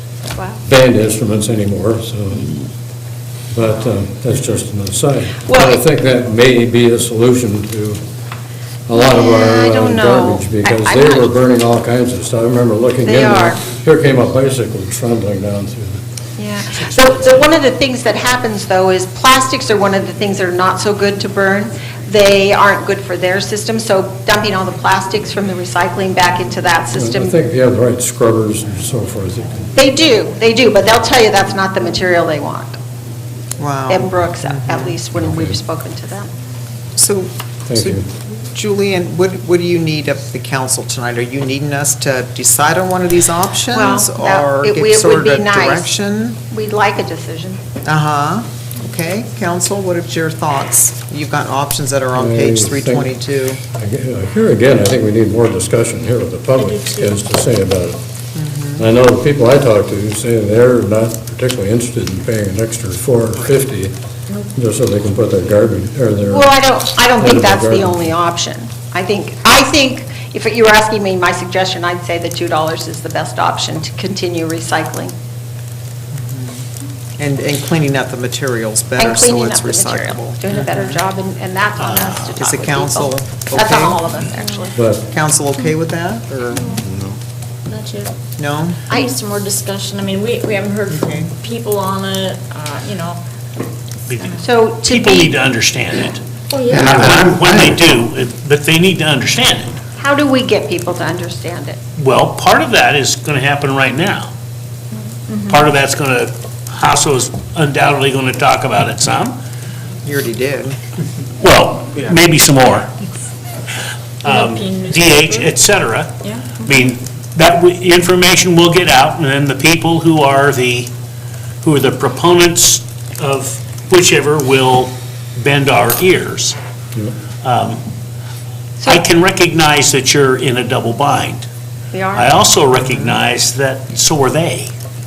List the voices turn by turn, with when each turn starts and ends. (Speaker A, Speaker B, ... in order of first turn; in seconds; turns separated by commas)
Speaker A: 0.4-0.6, Speaker B: 0.7-2.7, Speaker B: 3.5-8.0, Speaker A: 5.5-5.8, Speaker B: 8.9-16.0, Speaker A: 8.9-11.3, Speaker A: 13.0-13.6, Speaker A: 16.4-27.4, Speaker B: 16.8-17.2, Speaker B: 26.9-29.7, Speaker A: 29.8-32.8, Speaker C: 33.6-34.9, Speaker A: 33.9-36.3, Speaker C: 37.0-46.4, Speaker B: 37.7-38.1, Speaker A: 43.7-45.9, Speaker A: 46.5-47.6, Speaker C: 47.9-53.6, Speaker B: 52.1-53.1, Speaker B: 53.7-58.0, Speaker D: 56.6-57.1, Speaker C: 58.4-58.8, Speaker B: 58.8-63.9, Speaker B: 64.5-66.5, Speaker A: 66.3-75.1, Speaker B: 67.2-68.1, Speaker C: 76.1-76.7, Speaker C: 77.2-81.0, Speaker A: 79.0-84.8, Speaker E: 81.8-82.2, Speaker C: 82.3-84.0, Speaker B: 84.8-85.1, Speaker C: 85.1-87.0, Speaker D: 87.7-88.1, Speaker C: 88.4-88.8, Speaker D: 88.9-93.2, Speaker C: 90.9-91.3, Speaker E: 94.1-99.8, Speaker A: 94.4-95.3, Speaker D: 96.5-97.0, Speaker C: 96.7-97.8, Speaker A: 100.0-101.8, Speaker E: 102.0-104.3, Speaker E: 105.5-109.4, Speaker C: 110.0-110.8, Speaker E: 111.4-112.9, Speaker D: 114.2-115.5, Speaker E: 114.2-120.9, Speaker D: 116.2-116.6, Speaker E: 121.6-126.6, Speaker E: 127.4-127.8, Speaker E: 128.8-131.5, Speaker A: 131.9-132.4, Speaker E: 132.1-134.7